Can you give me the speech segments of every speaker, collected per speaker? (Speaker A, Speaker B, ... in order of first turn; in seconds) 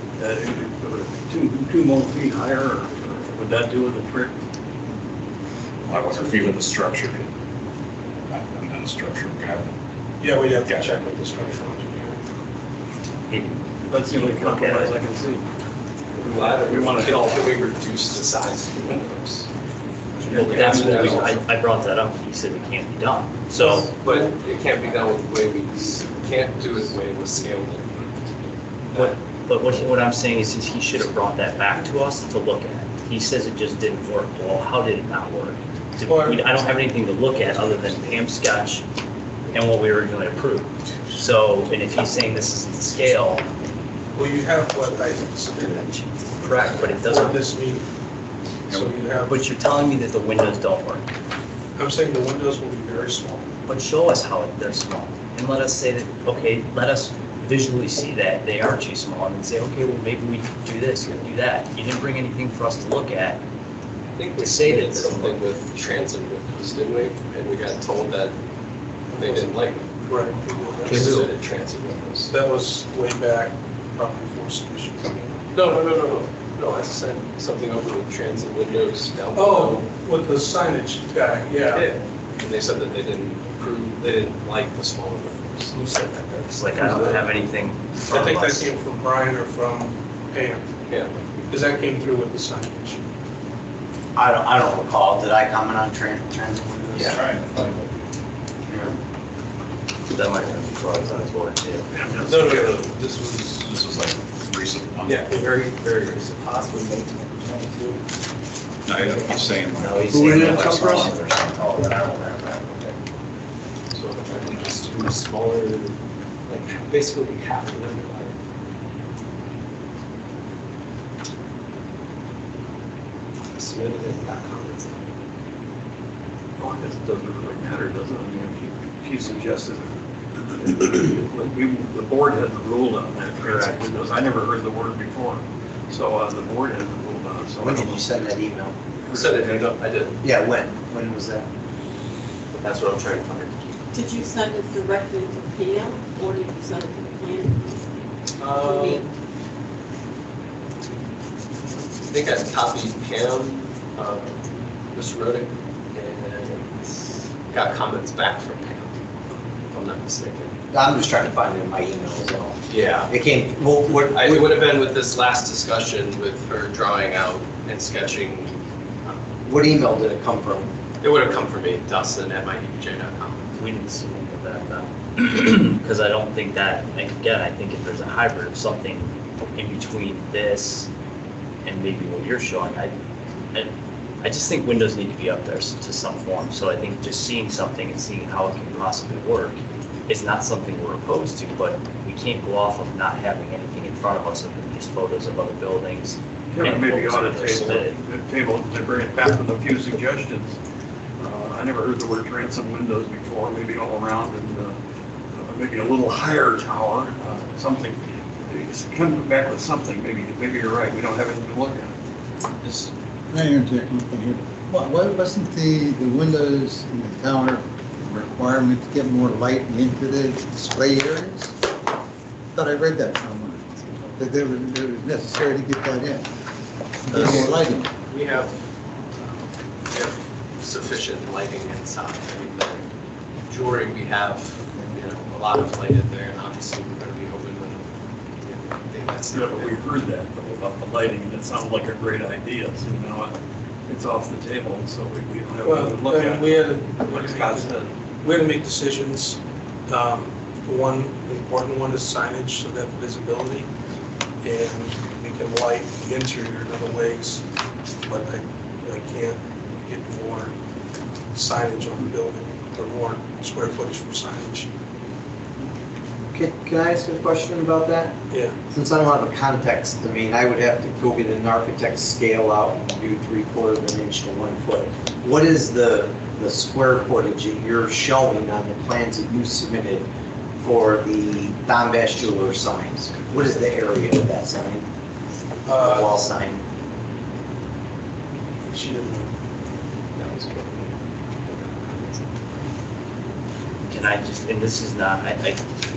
Speaker A: 0.2-4.4, 13.9-15.5, 16.2-17.5, 20.2-21.3, 126.6-138.1, 139.0-139.7, 196.5-200.6, 201.2-204.8, 205.3-211.9, 239.3-243.4, 243.9-247.9
Speaker B: 5.9-7.3, 8.3-9.8, 10.4-11.1, 97.1-97.8, 102.0-102.8, 103.5-105.3, 108.9-112.8
Speaker C: 10.2-12.2, 36.1-36.5, 44.1-47.9, 48.7-49.4, 51.8-53.5, 69.1-71.3, 72.3-75.4, 79.3-81.9, 86.7-87.1, 88.1-90.7, 91.5-93.0, 102.2-103.8, 245.6-253.7, 254.4-257.4, 258.1-260.5, 261.3-264.7, 268.3-268.6, 285.7-286.1, 288.7-289.3
Speaker D: 13.3-15.0, 20.3-23.9, 28.9-38.9, 39.5-43.5, 45.8-47.4, 49.3-51.1, 53.7-63.4, 64.4-65.4, 70.9-71.2, 85.8-88.7, 100.1-101.9, 109.8-112.0, 173.6-180.9, 181.7-182.9, 183.5-198.0, 227.1-227.5, 293.9-295.6
Speaker E: 16.2-19.5, 20.3-21.4, 23.6-28.3, 28.9-29.2, 64.2-68.4, 69.1-72.3, 75.5-79.9, 81.7-85.8, 90.9-91.2, 105.0-108.0, 113.9-116.0, 116.5-118.4, 123.5-125.1, 139.1-140.2, 142.5-143.8, 148.4-149.1, 152.1-159.0, 159.7-160.6, 162.7-163.1, 164.0-169.2, 171.0-173.5, 228.1-228.6, 229.2-232.8, 233.5-237.8, 238.4-239.8, 290.1-292.4
Speaker F: 94.2-97.3, 137.6-138.8, 140.2-141.5, 160.7-164.6, 169.4-170.7, 266.3-268.2, 268.7-280.1, 280.6-284.9, 285.7-286.6
Speaker G: 143.9-147.8, 148.6-149.1
Speaker H: 212.6-221.5, 222.6-226.2, 227.1-227.9